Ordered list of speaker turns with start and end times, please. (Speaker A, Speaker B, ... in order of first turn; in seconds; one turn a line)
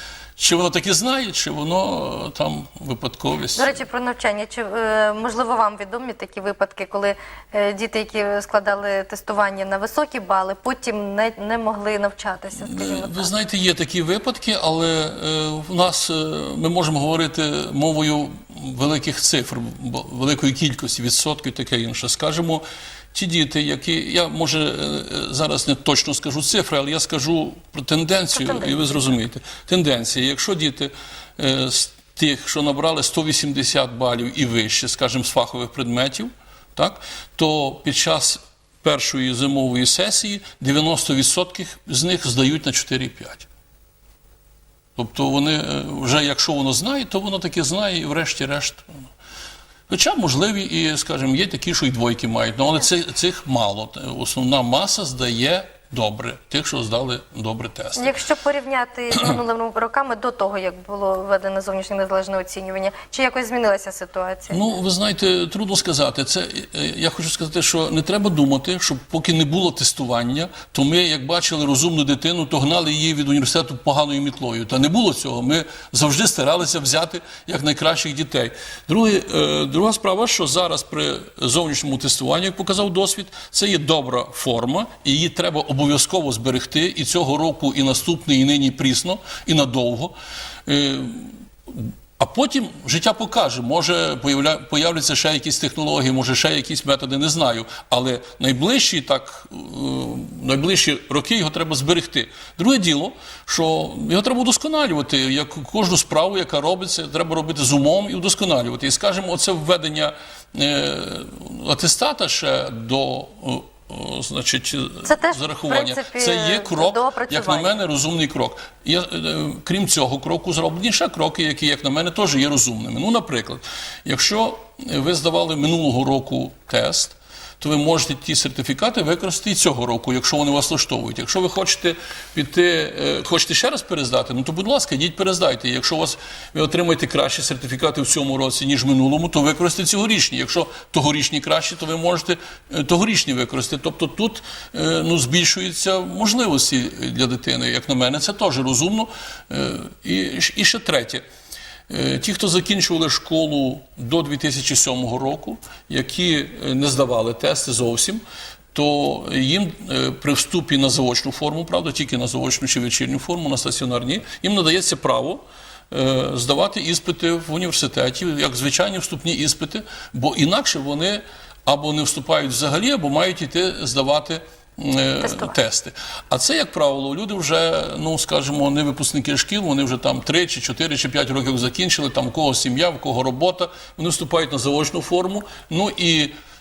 Speaker A: 0.4-3.8
Speaker B: 3.5-13.3
Speaker A: 12.6-43.5
Speaker B: 28.3-29.1
Speaker A: 45.0-49.1
Speaker A: 49.9-58.1
Speaker B: 58.0-64.7
Speaker A: 64.5-90.1
Speaker A: 90.7-151.2
Speaker B: 115.0-117.7
Speaker A: 151.9-158.2
Speaker A: 158.7-186.3
Speaker B: 175.2-175.6